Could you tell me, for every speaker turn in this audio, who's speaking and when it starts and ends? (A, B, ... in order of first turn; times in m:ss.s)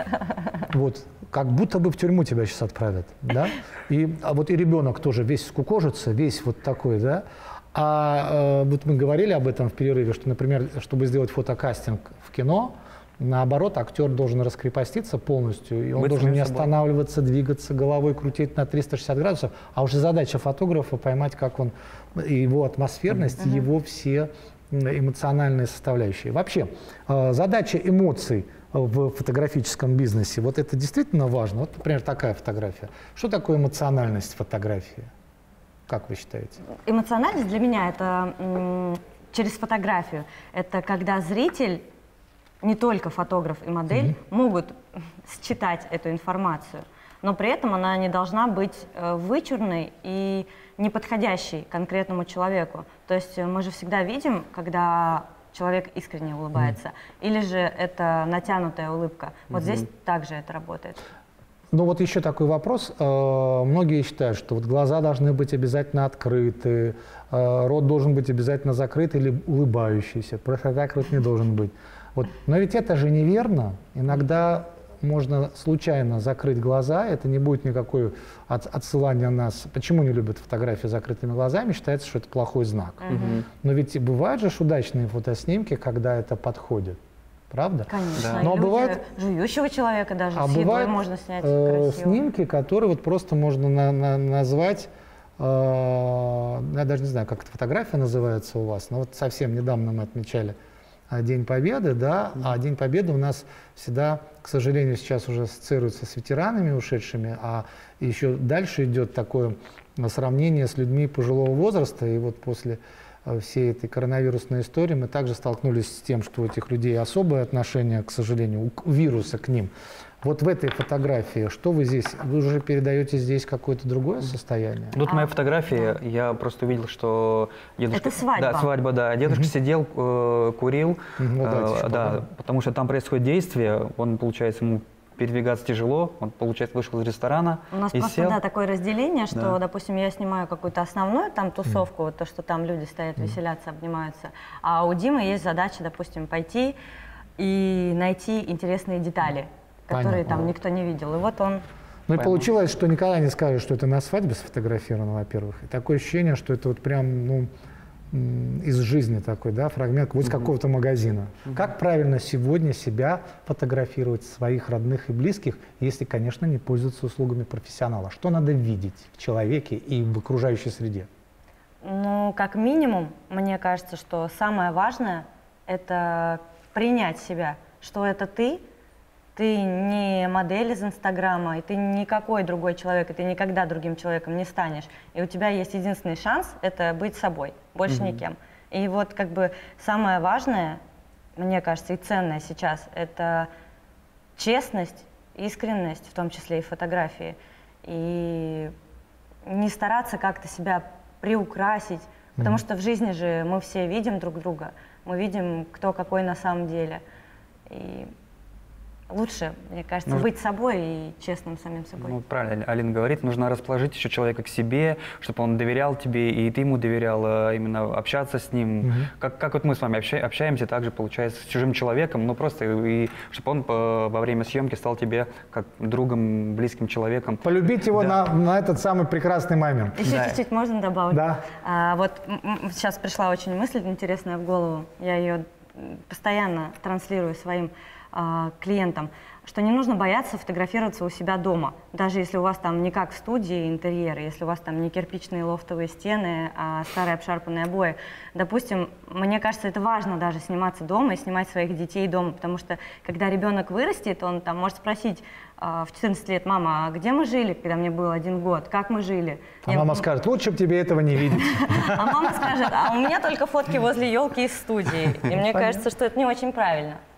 0:00.7-0:35.1 A
0:16.0-0:16.7 B
0:23.4-0:23.7 C
0:35.9-0:36.6 A
0:36.8-0:41.8 C
0:42.6-1:01.0 C
0:59.5-0:59.8 B
1:01.7-1:29.0 A
1:23.0-1:23.4 C
1:23.1-1:23.4 B
1:27.9-1:32.2 C
1:28.2-1:28.4 B
1:30.3-1:40.6 A
1:41.1-1:59.7 A
2:00.2-2:05.0 A
2:05.0-2:18.4 B
2:05.0-2:05.3 C
2:07.9-2:08.7 C
2:11.2-2:12.2 A
2:17.7-2:26.8 C
2:27.4-2:31.6 C
2:29.9-2:30.5 A
2:32.1-2:37.5 A
2:38.1-2:51.1 A
2:51.8-2:58.6 C
2:59.4-3:10.8 C
3:07.9-3:08.2 B
3:11.4-3:13.5 C
3:14.4-3:18.7 C
3:19.4-3:27.0 C
3:27.7-3:28.1 C
3:29.1-3:32.2 C
3:32.0-3:47.4 B
3:38.8-3:39.1 A
3:47.4-3:50.0 A
3:49.9-4:20.0 C
3:50.0-3:50.4 B
3:51.1-3:51.4 A
4:19.6-4:22.5 A
4:21.5-4:27.0 C
4:25.3-4:25.9 A